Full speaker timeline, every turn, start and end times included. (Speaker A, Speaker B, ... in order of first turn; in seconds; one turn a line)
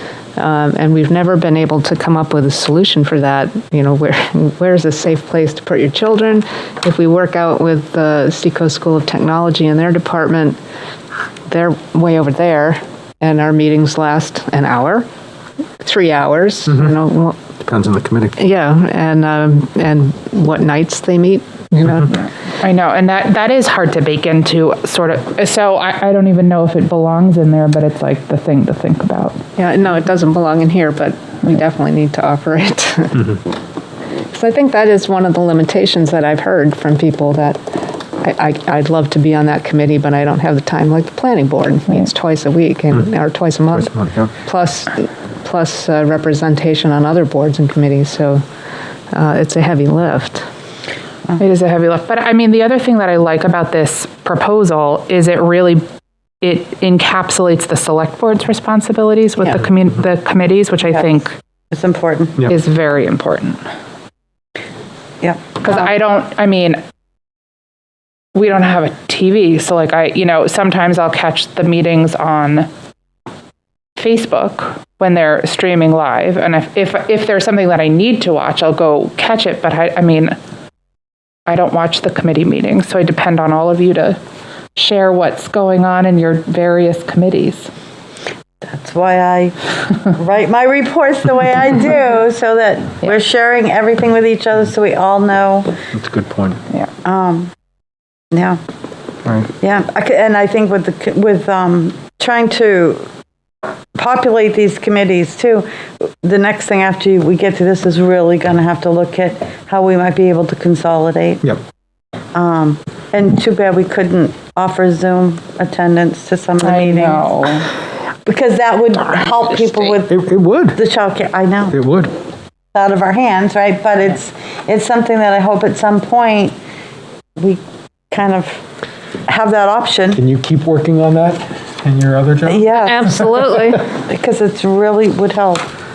Speaker A: 0.4-10.6
Speaker A: 11.5-15.1
Speaker A: 15.8-17.4
Speaker B: 16.7-17.0
Speaker B: 17.6-18.4
Speaker A: 18.4-22.2
Speaker C: 22.6-29.4
Speaker A: 29.6-33.4
Speaker A: 34.3-37.6
Speaker A: 38.2-48.4
Speaker B: 43.7-44.3
Speaker A: 49.1-50.4
Speaker C: 51.4-55.8
Speaker C: 56.4-61.4
Speaker D: 61.7-62.4
Speaker C: 62.5-63.6
Speaker C: 65.6-66.8
Speaker C: 68.3-72.7
Speaker C: 74.0-80.4
Speaker C: 81.5-84.2
Speaker C: 84.8-87.7
Speaker D: 88.7-89.6
Speaker D: 90.1-95.7
Speaker B: 95.9-96.6
Speaker D: 97.0-97.5
Speaker D: 98.3-98.6
Speaker D: 99.6-103.0
Speaker D: 104.0-111.4
Speaker D: 112.3-117.2
Speaker C: 116.6-117.7
Speaker D: 118.3-120.2
Speaker B: 120.1-120.8
Speaker D: 120.8-121.8
Speaker B: 121.7-122.1
Speaker D: 122.7-126.5
Speaker D: 128.1-128.6
Speaker D: 129.3-130.2
Speaker B: 130.1-132.7
Speaker D: 132.5-133.2
Speaker A: 132.8-133.8
Speaker D: 133.9-135.7